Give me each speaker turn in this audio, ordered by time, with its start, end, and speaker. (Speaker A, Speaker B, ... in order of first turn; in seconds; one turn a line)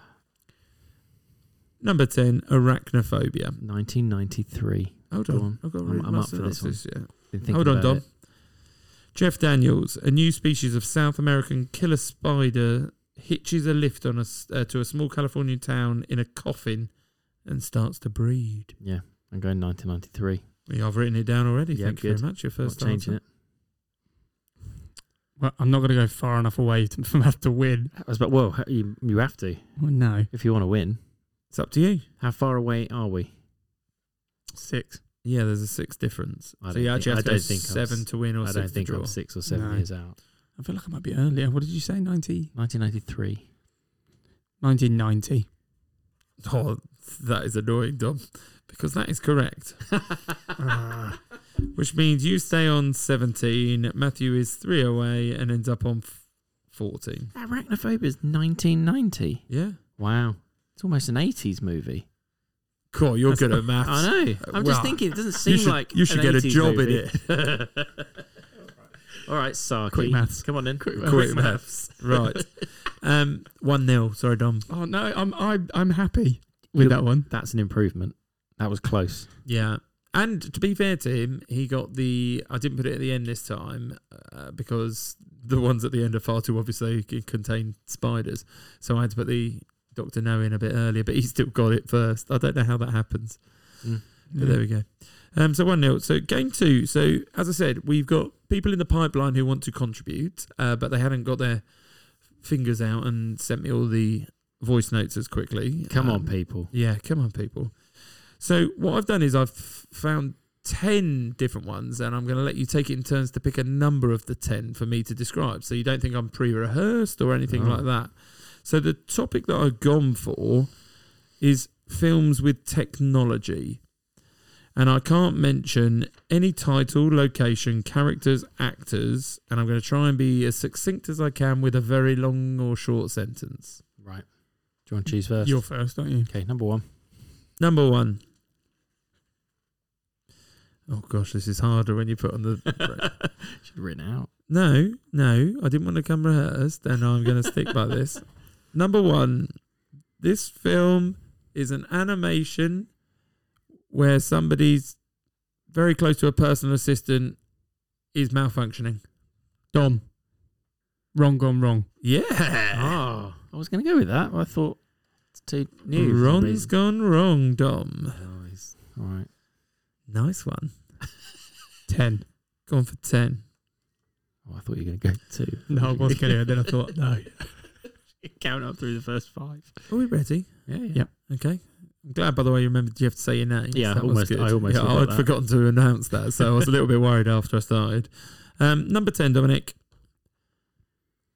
Speaker A: 1.8-3.6
Speaker B: 3.6-8.1
Speaker A: 5.1-18.8
Speaker B: 18.8-20.5
Speaker A: 20.7-23.2
Speaker B: 21.7-23.2
Speaker C: 25.4-27.9
Speaker B: 27.9-31.0
Speaker C: 29.8-30.3
Speaker A: 31.5-32.1
Speaker B: 32.2-33.3
Speaker C: 34.5-35.0
Speaker A: 35.2-39.2
Speaker B: 36.6-40.2
Speaker C: 39.5-42.5
Speaker B: 42.5-43.5
Speaker C: 44.6-45.5
Speaker A: 46.4-50.0
Speaker C: 50.6-51.2
Speaker A: 51.7-57.3
Speaker B: 57.3-62.1
Speaker A: 59.5-59.8
Speaker A: 62.9-67.3
Speaker B: 63.8-68.1
Speaker B: 69.2-72.4
Speaker C: 69.9-71.7
Speaker A: 71.0-74.7
Speaker C: 74.7-77.3
Speaker B: 76.8-79.4
Speaker A: 79.5-123.8
Speaker C: 94.3-94.6
Speaker B: 105.9-106.7
Speaker B: 117.5-117.9
Speaker A: 124.7-133.8
Speaker B: 134.0-136.9
Speaker C: 135.4-136.3
Speaker A: 137.6-138.2
Speaker A: 140.9-143.2
Speaker B: 142.9-144.3
Speaker A: 144.5-149.6
Speaker A: 150.2-152.9
Speaker A: 153.9-155.0
Speaker A: 155.7-157.5
Speaker A: 158.1-159.0
Speaker C: 159.7-160.1
Speaker C: 161.1-161.9
Speaker A: 162.0-163.0
Speaker B: 162.7-166.7
Speaker A: 165.9-168.2
Speaker B: 168.1-169.3
Speaker A: 170.1-171.0
Speaker C: 171.9-172.3
Speaker A: 172.7-173.4
Speaker B: 174.4-176.6
Speaker C: 175.7-177.8
Speaker B: 178.1-179.9
Speaker A: 179.9-189.8
Speaker B: 180.7-181.0
Speaker B: 183.7-185.4